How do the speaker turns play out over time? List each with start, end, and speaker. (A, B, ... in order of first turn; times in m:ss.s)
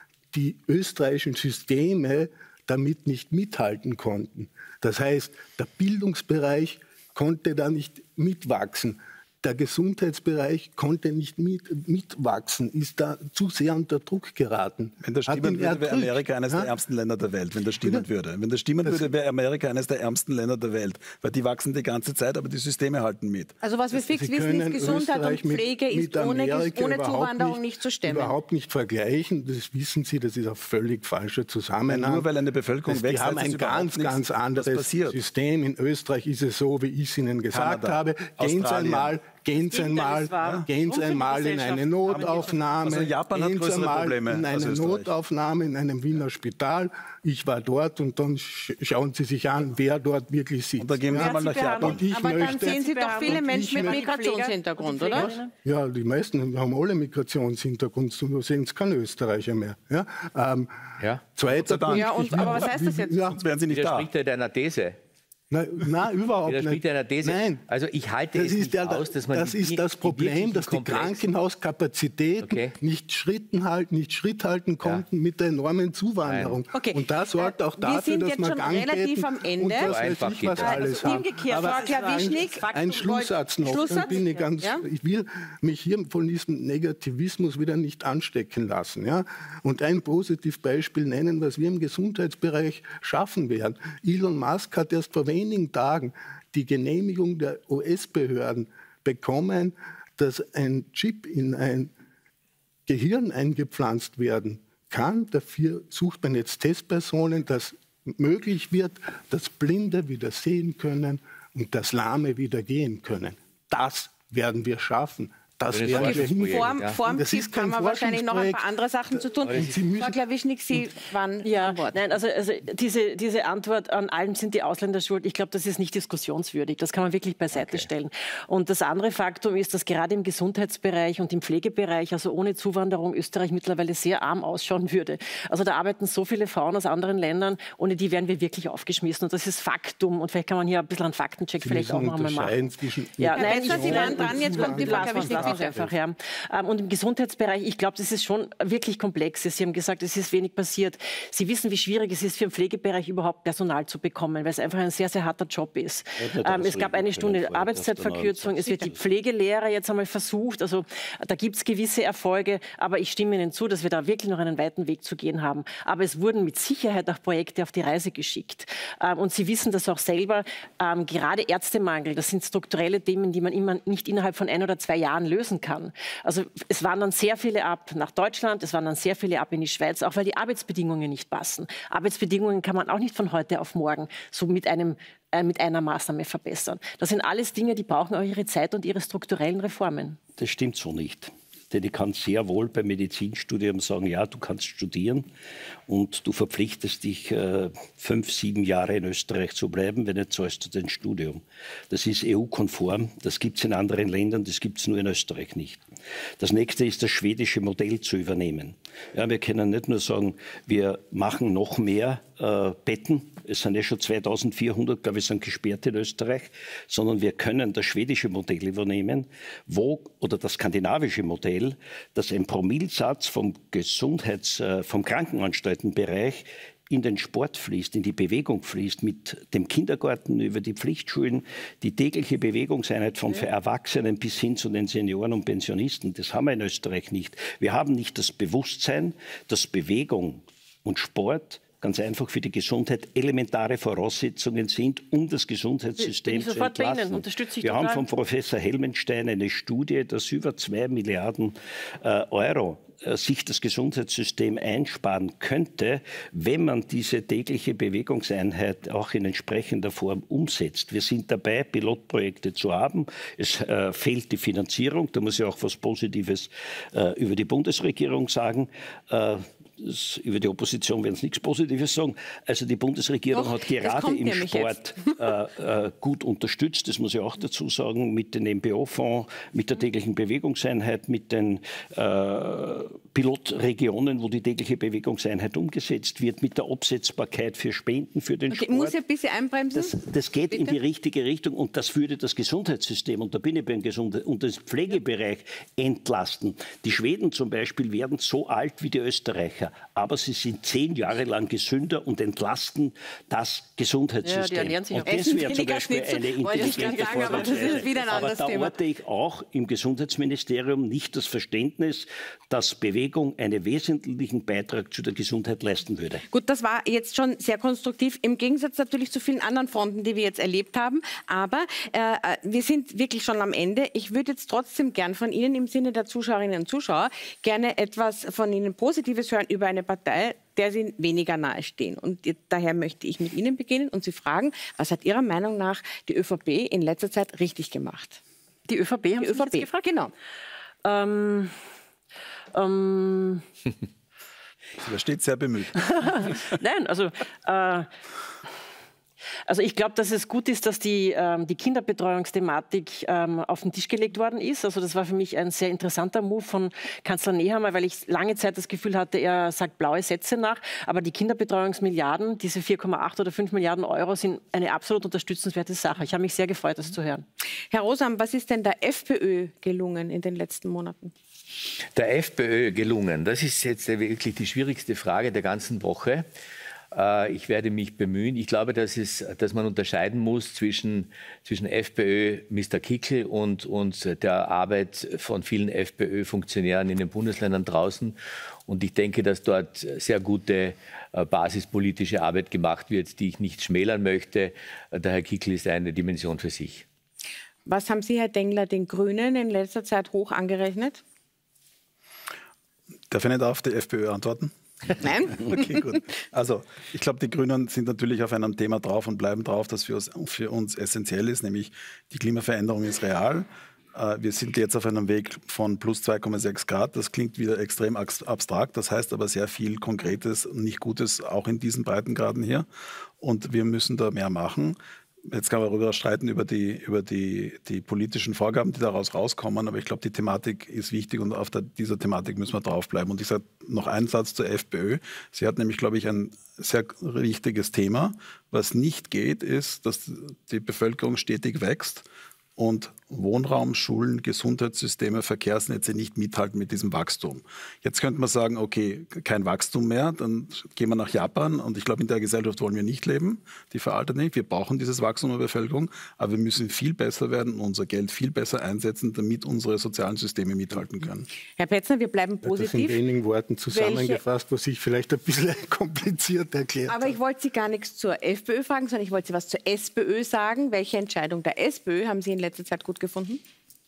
0:00.3-0:16.7 A
0:15.0-0:23.5 B
0:18.8-0:19.1 A
0:23.6-0:28.4 C
0:23.9-0:32.2 A
0:31.9-0:35.2 B
0:32.9-0:54.0 A
0:37.5-0:39.2 B
0:39.6-0:42.6 D
0:40.4-0:40.7 B
0:42.1-0:45.1 B
0:50.8-0:52.1 B
0:51.1-0:55.5 D
0:52.1-0:55.3 C
0:55.0-1:00.7 A
1:01.0-1:01.2 E
1:01.3-1:03.4 A
1:01.4-1:04.1 B
1:01.9-1:03.2 C
1:03.7-1:05.0 E
1:05.5-1:07.6 A
1:06.4-1:11.3 E
1:08.3-1:41.9 A
1:12.4-1:12.7 E
1:16.2-1:16.6 E
1:16.7-1:20.0 C
1:19.8-1:20.8 E
1:20.6-1:24.8 C
1:20.6-1:24.5 D
1:42.9-2:00.2 A
1:55.7-1:57.0 E
1:55.9-2:02.1 C
1:59.4-1:59.7 E
2:01.4-3:10.2 D
2:07.5-2:07.9 E
2:21.6-2:25.9 A
2:23.3-2:25.7 C
2:36.2-2:39.0 F
3:10.4-3:15.3 F
3:15.9-3:25.8 F
3:26.4-4:49.0 F
4:06.0-4:08.1 D
4:33.3-4:35.1 C
4:48.5-4:49.9 C
4:49.7-5:16.2 F
4:50.5-4:50.8 C
5:04.2-5:05.5 D
5:05.0-5:08.8 C
5:06.4-5:08.3 D
5:16.3-5:38.2 C
5:38.7-5:39.7 D
5:39.2-5:40.1 C
5:40.8-5:41.6 D
5:42.5-5:43.4 D
5:44.8-5:46.4 B
5:45.8-5:47.9 D
5:49.5-6:07.2 D
6:07.7-6:11.1 C
6:11.9-6:16.2 E
6:16.9-6:28.2 E
6:28.7-6:36.8 E
6:37.6-6:41.0 C
6:43.1-7:02.7 B
6:45.0-6:46.0 C
7:03.2-7:22.0 B
7:22.6-7:41.3 B
7:41.5-7:43.0 C
7:42.4-7:47.2 A
7:43.7-7:44.2 C
7:46.9-7:53.4 C